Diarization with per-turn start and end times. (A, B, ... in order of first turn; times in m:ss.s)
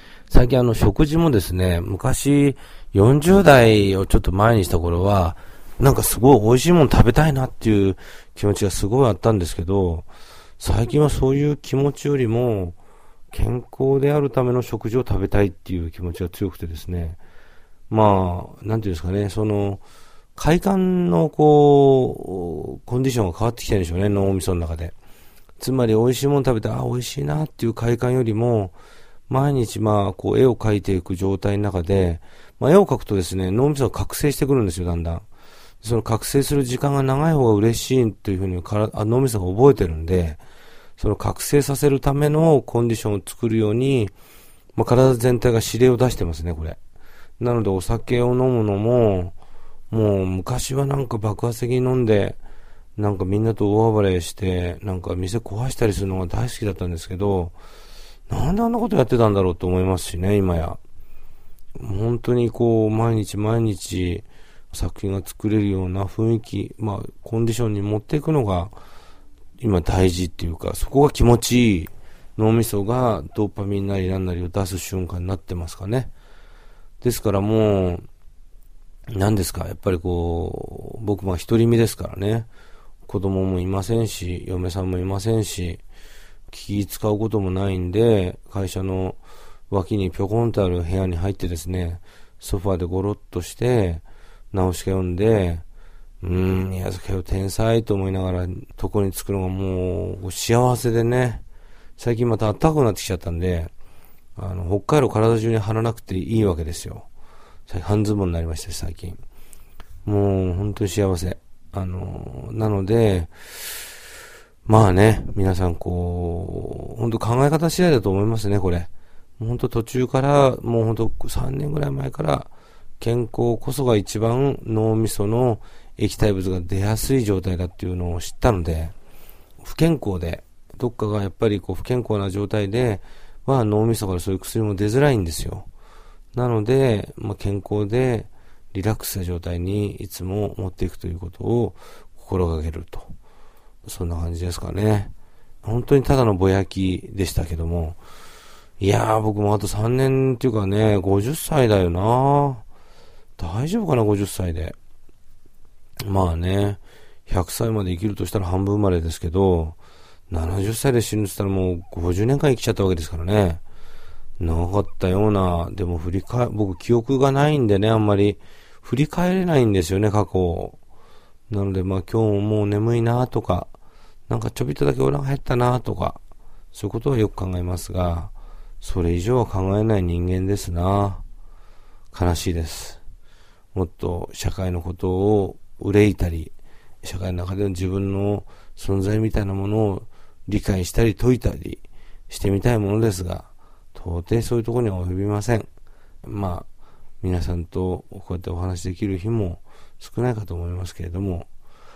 0:00.3-0:10.1 A
0:10.6-0:12.8 A
0:13.3-0:17.2 A
0:17.9-0:19.8 A
0:20.4-0:24.9 A
0:25.6-0:28.7 A
0:29.3-0:35.2 A
0:35.8-0:40.4 A
0:41.0-0:44.1 A
0:44.8-0:46.8 A
0:47.4-0:49.3 A
0:49.9-0:52.4 A
0:53.0-0:57.5 A
0:58.3-1:00.8 A
1:01.8-1:08.7 A
1:09.6-1:16.1 A
1:17.0-1:18.0 A
1:19.1-1:22.5 A
1:23.0-1:25.8 A
1:26.5-1:29.2 A
1:29.7-1:35.6 A
1:36.2-1:41.4 A
1:42.0-1:43.7 A
1:44.4-1:47.1 A
1:47.7-1:49.2 A
1:50.0-1:53.8 A
1:54.6-2:08.9 A
2:09.6-2:15.7 A
2:16.3-2:23.1 A
2:23.8-2:28.0 A
2:28.8-2:32.6 A
2:33.4-2:34.7 A
2:36.0-2:39.8 A
2:40.3-2:43.6 A
2:44.4-2:50.8 A
2:51.5-2:53.7 A
2:54.3-2:56.2 A
2:56.7-3:01.2 A
3:02.1-3:03.0 A
3:03.7-3:15.7 A
3:16.2-3:16.7 A
3:17.2-3:21.5 A